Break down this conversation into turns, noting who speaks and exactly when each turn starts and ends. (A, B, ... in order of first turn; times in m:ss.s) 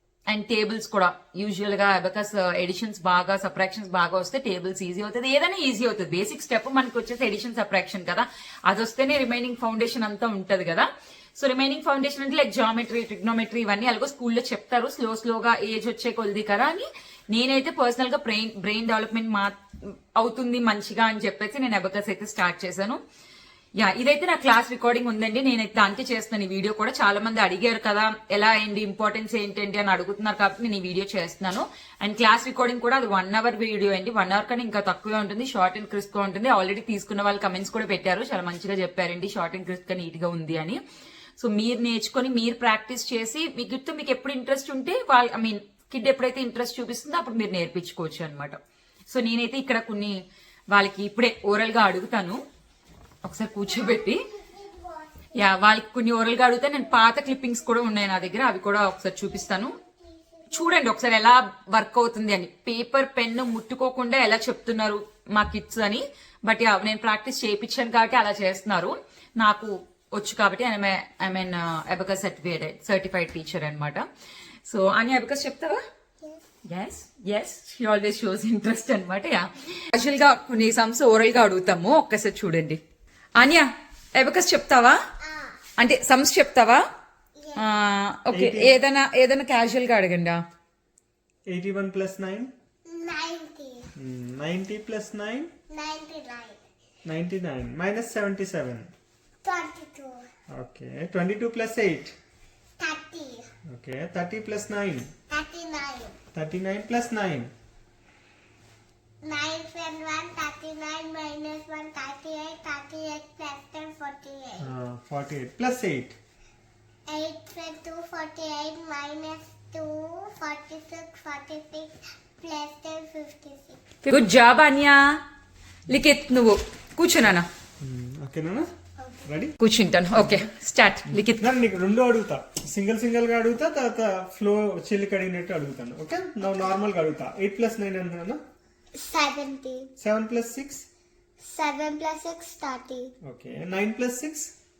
0:00.3-0:23.0 A
0:23.8-0:40.8 A
0:41.4-0:48.6 A
0:49.1-0:52.4 A
0:53.2-0:54.2 A
0:53.6-0:55.4 B
0:55.3-0:59.8 A
0:59.2-1:00.5 B
1:00.5-1:14.1 A
1:14.7-1:15.8 A
1:16.7-1:22.8 A
1:23.4-1:25.0 A
1:25.2-1:25.6 B
1:25.8-1:26.8 A
1:27.4-1:27.7 B
1:27.5-1:30.4 A
1:28.3-1:28.8 C
1:31.5-1:32.5 C
1:32.8-1:33.9 B
1:34.0-1:35.5 C
1:35.7-1:36.6 B
1:37.0-1:38.9 C
1:39.4-1:40.3 B
1:40.5-1:42.1 C
1:42.8-1:43.5 B
1:43.6-1:45.1 C
1:45.3-1:46.2 B
1:46.3-1:47.5 C
1:49.2-1:54.7 B
1:54.6-1:56.2 C
1:57.1-2:03.8 B
2:04.0-2:05.2 A
2:05.9-2:07.5 A
2:07.8-2:08.7 C
2:09.2-2:09.6 C
2:09.6-2:11.5 A
2:11.1-2:18.4 C
2:18.9-2:19.9 B
2:20.0-2:20.9 C
2:21.4-2:23.1 B
2:23.2-2:24.5 C